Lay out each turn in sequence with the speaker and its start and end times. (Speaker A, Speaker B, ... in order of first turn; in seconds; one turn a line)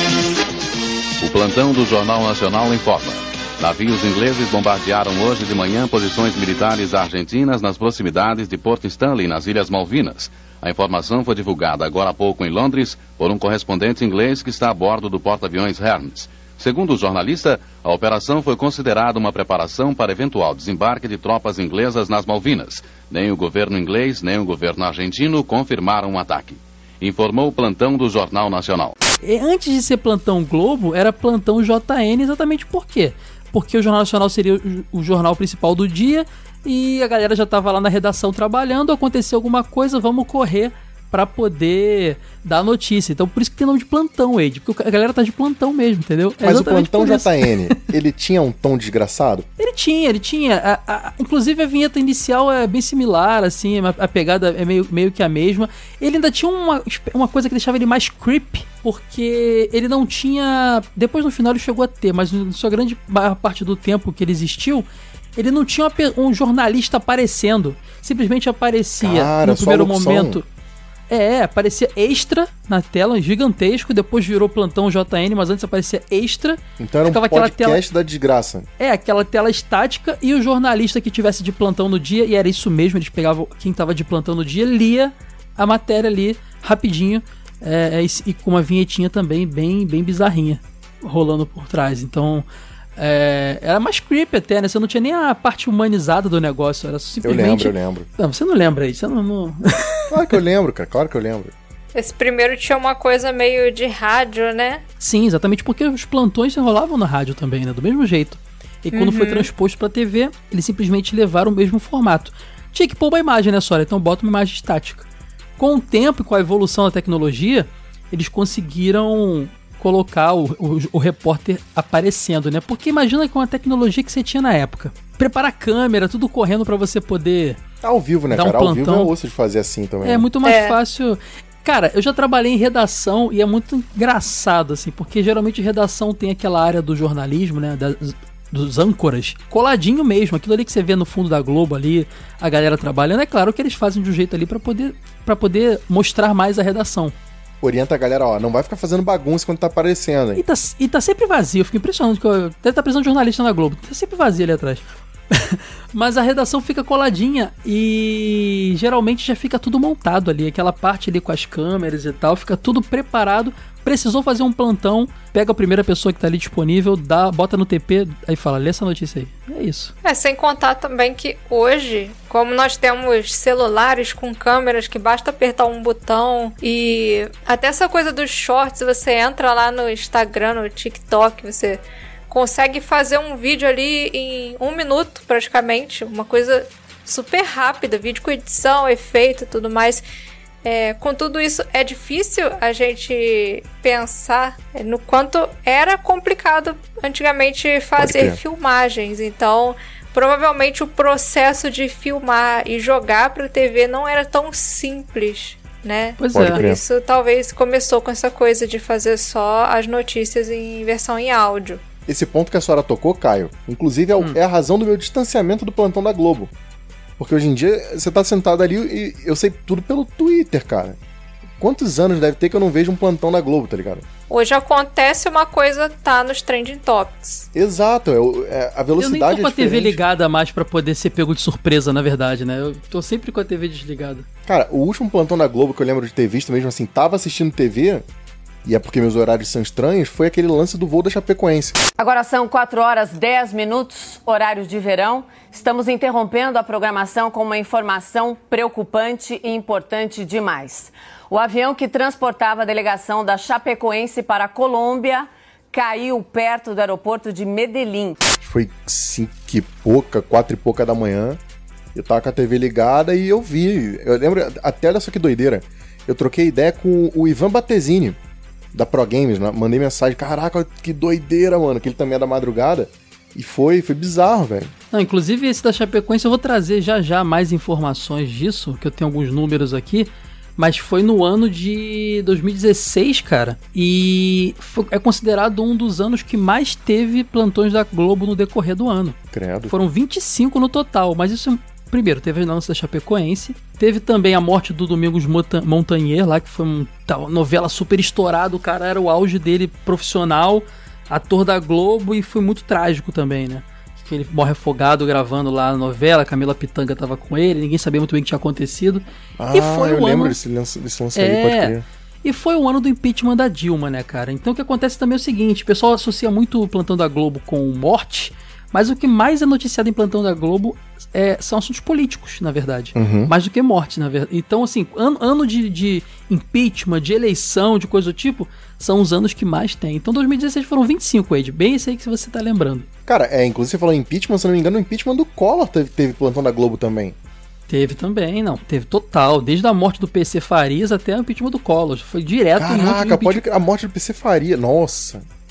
Speaker A: 1.2-28.9
Speaker B: 29.2-47.3
Speaker C: 46.4-49.5
Speaker B: 49.6-70.5
Speaker C: 69.0-70.4
Speaker B: 71.1-77.8
Speaker C: 76.8-78.7
Speaker B: 78.8-92.4
Speaker B: 93.0-100.1
Speaker C: 97.2-98.1
Speaker C: 100.1-101.5
Speaker D: 101.9-104.8
Speaker B: 105.0-115.1
Speaker D: 108.9-109.5
Speaker B: 115.6-127.6
Speaker C: 127.8-130.2
Speaker B: 128.3-129.1
Speaker B: 130.0-147.1
Speaker D: 130.4-130.8
Speaker C: 147.6-150.4
Speaker B: 150.3-169.9
Speaker D: 170.0-190.0
Speaker D: 190.6-211.8
Speaker C: 198.0-198.4
Speaker B: 206.2-206.6
Speaker C: 206.3-206.8
Speaker C: 212.1-216.5
Speaker C: 217.2-221.0
Speaker C: 221.6-224.0
Speaker D: 224.3-227.5
Speaker C: 227.5-230.0
Speaker B: 228.9-234.2
Speaker C: 234.4-238.0
Speaker C: 238.6-241.8
Speaker E: 242.0-258.2
Speaker C: 258.4-261.4
Speaker C: 261.9-268.2
Speaker C: 268.7-274.7
Speaker B: 274.9-289.2
Speaker C: 289.3-289.7
Speaker B: 289.7-310.4
Speaker C: 309.4-311.8
Speaker B: 311.1-332.9
Speaker C: 322.9-323.3
Speaker C: 333.1-337.1
Speaker B: 337.7-343.4
Speaker C: 342.6-345.2